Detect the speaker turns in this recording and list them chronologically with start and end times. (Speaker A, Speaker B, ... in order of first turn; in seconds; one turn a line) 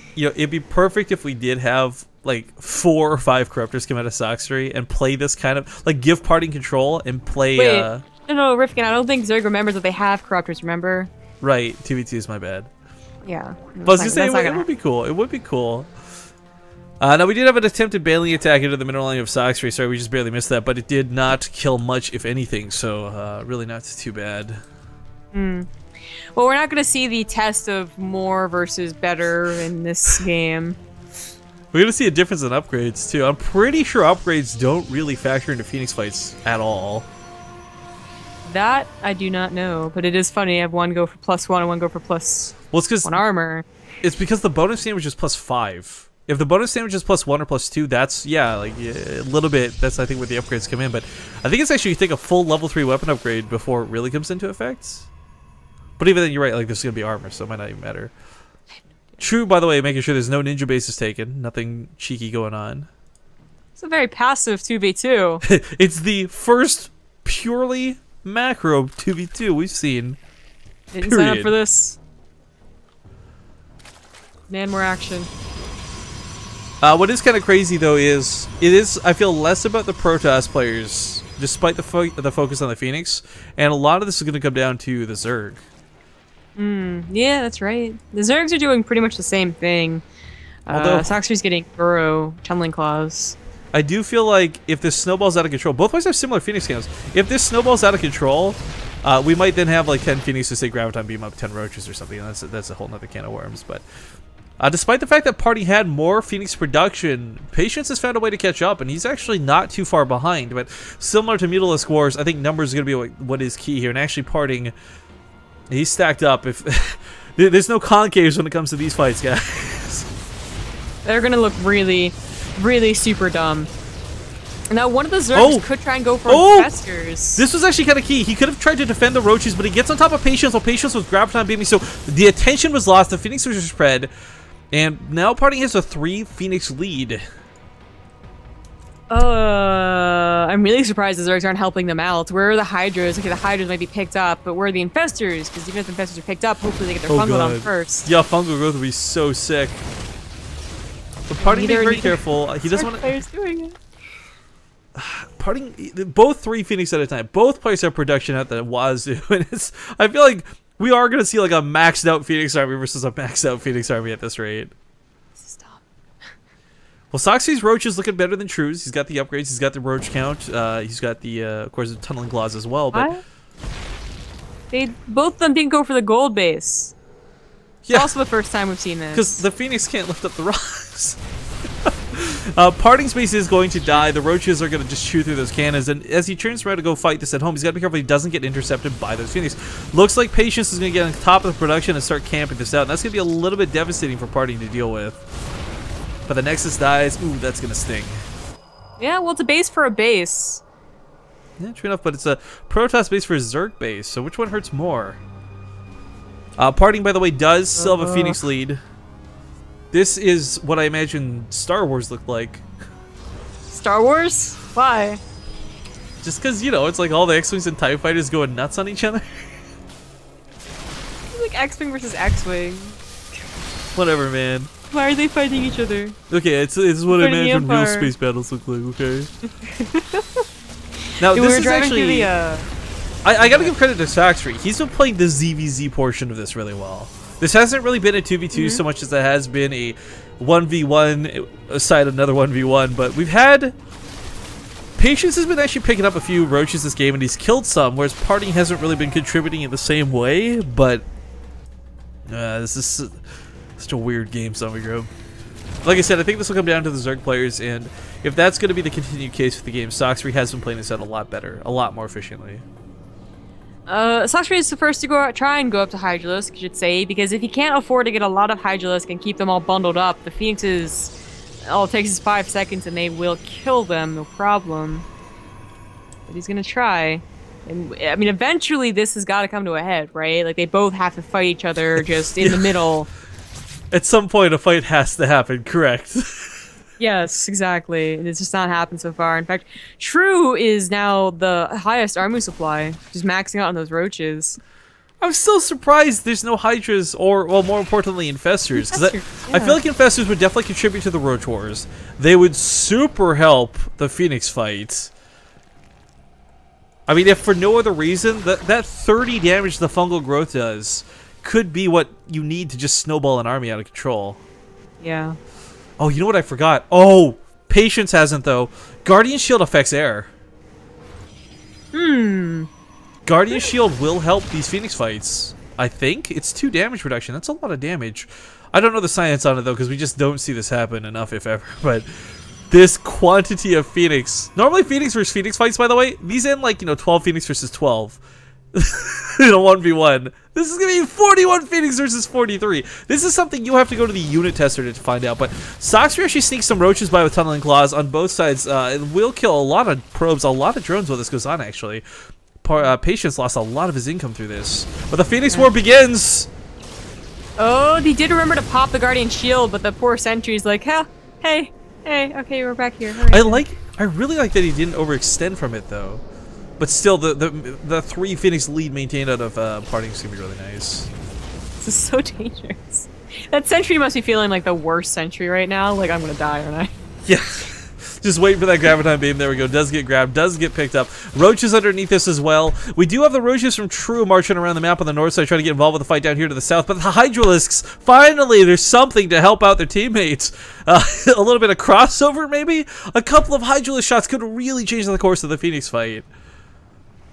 Speaker A: 0.2-8.1
Speaker B: 7.6-11.1
Speaker A: 11.4-12.7
Speaker B: 13.2-14.7
Speaker A: 13.8-15.9
Speaker A: 17.0-24.6
Speaker B: 25.3-25.7
Speaker B: 26.4-30.8
Speaker A: 31.7-37.1
Speaker B: 38.5-43.7
Speaker A: 42.7-43.2
Speaker A: 44.0-55.1
Speaker A: 56.0-58.1
Speaker A: 59.2-62.9
Speaker B: 63.8-65.4
Speaker A: 65.4-70.2
Speaker B: 70.9-72.0
Speaker A: 71.0-71.5
Speaker B: 74.5-75.3
Speaker A: 76.8-85.6
Speaker B: 86.6-90.0
Speaker B: 90.7-93.4
Speaker A: 90.7-91.2
Speaker A: 93.7-103.8
Speaker A: 104.6-114.7
Speaker A: 115.7-120.1
Speaker B: 121.0-123.7
Speaker B: 124.7-127.4
Speaker A: 125.3-125.7
Speaker A: 126.3-126.7
Speaker A: 127.4-134.1
Speaker A: 134.7-137.2
Speaker B: 139.1-148.1
Speaker A: 147.1-149.8
Speaker A: 151.3-153.1
Speaker B: 151.4-153.8
Speaker A: 155.0-164.7
Speaker B: 165.4-165.8
Speaker A: 167.1-173.1
Speaker B: 172.9-173.2
Speaker B: 174.7-176.9
Speaker A: 177.8-178.1
Speaker B: 177.9-179.4
Speaker A: 179.1-181.2
Speaker A: 181.8-195.2
Speaker A: 196.3-198.2
Speaker B: 199.0-200.6
Speaker A: 201.6-205.2
Speaker A: 206.6-208.8
Speaker B: 207.8-208.4
Speaker A: 209.9-212.7
Speaker B: 213.7-215.2
Speaker A: 216.2-219.2
Speaker B: 221.3-223.0
Speaker A: 223.9-224.7
Speaker B: 224.9-226.2
Speaker A: 226.3-229.3
Speaker B: 227.1-228.1
Speaker B: 229.5-230.4
Speaker A: 231.2-232.3
Speaker B: 231.3-232.7
Speaker A: 233.2-243.8
Speaker B: 233.4-233.7
Speaker B: 238.5-238.8
Speaker A: 245.0-251.1
Speaker A: 252.3-253.2
Speaker A: 253.8-255.1
Speaker A: 255.8-262.6
Speaker B: 263.9-275.1
Speaker B: 276.3-283.1
Speaker A: 283.9-286.5
Speaker B: 287.0-294.6
Speaker A: 295.2-305.1
Speaker B: 298.8-299.8
Speaker A: 307.1-314.4
Speaker B: 315.0-315.4
Speaker A: 316.0-320.3
Speaker B: 321.9-322.7
Speaker A: 323.3-332.1
Speaker A: 332.7-338.2
Speaker A: 338.7-352.0
Speaker A: 352.6-356.5
Speaker B: 357.6-363.6
Speaker A: 363.3-366.2
Speaker A: 366.8-371.1
Speaker B: 371.8-376.9
Speaker A: 377.3-396.3